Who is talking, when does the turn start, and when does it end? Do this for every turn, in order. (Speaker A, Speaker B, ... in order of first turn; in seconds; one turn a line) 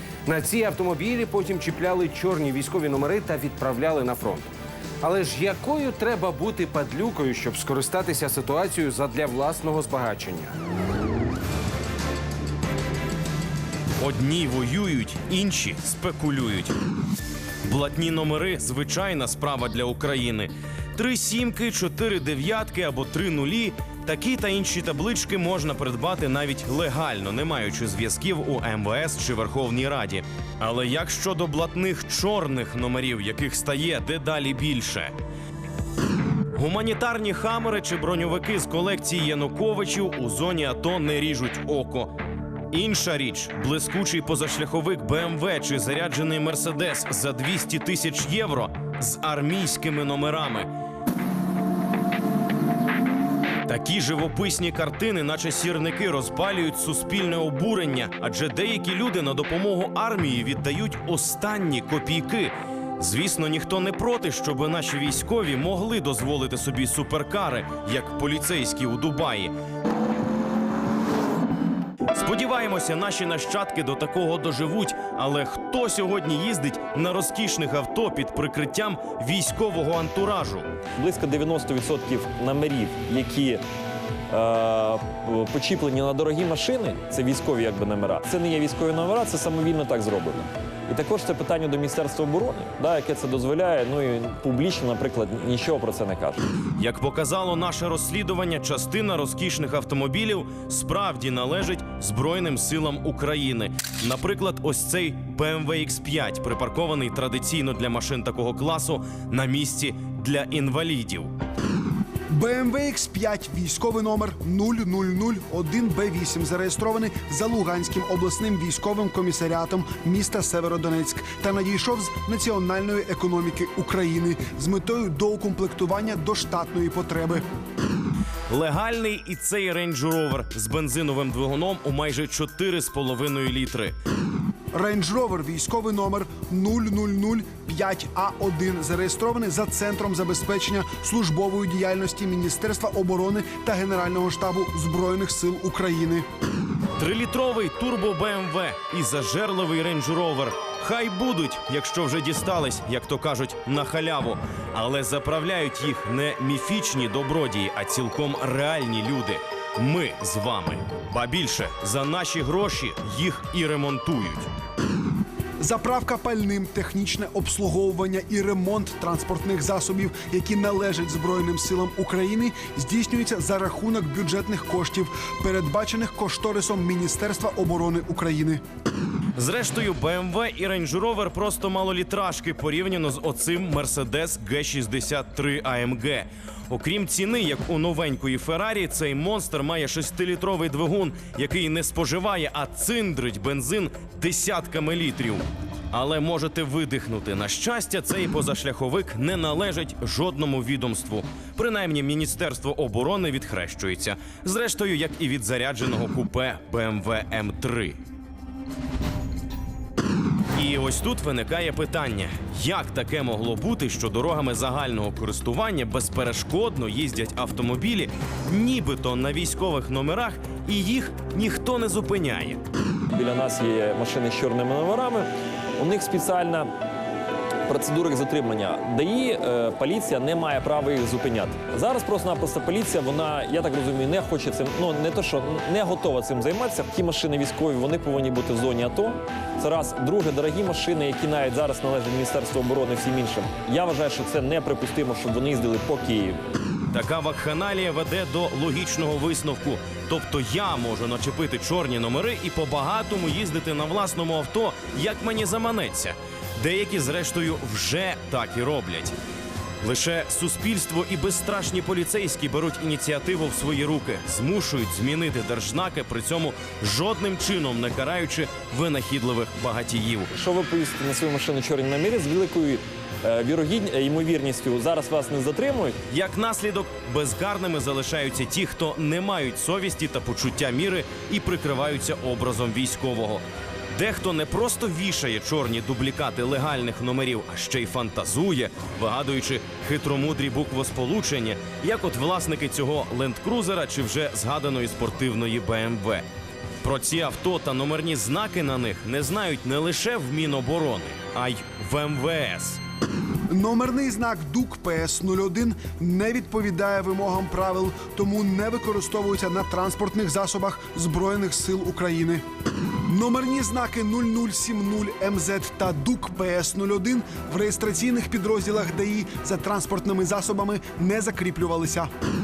Speaker A: 0.2-4.5
Speaker A: 5.0-10.6
Speaker B: 14.0-16.8
Speaker B: 17.6-35.1
Speaker B: 36.5-42.1
Speaker B: 42.7-50.7
Speaker B: 53.6-69.5
Speaker B: 72.1-80.7
Speaker C: 81.0-83.6
Speaker C: 84.3-96.4
Speaker B: 96.8-111.3
Speaker D: 112.3-127.4
Speaker B: 128.5-133.9
Speaker D: 134.7-146.2
Speaker B: 147.0-164.5
Speaker D: 165.6-178.6
Speaker B: 179.3-208.0
Speaker B: 210.5-222.6
Speaker C: 223.1-226.7
Speaker C: 227.7-246.4
Speaker B: 246.9-259.1
Speaker B: 259.8-270.3
Speaker C: 270.3-276.0
Speaker B: 276.1-296.2
Speaker B: 296.8-302.8
Speaker D: 303.5-312.4
Speaker D: 313.1-322.1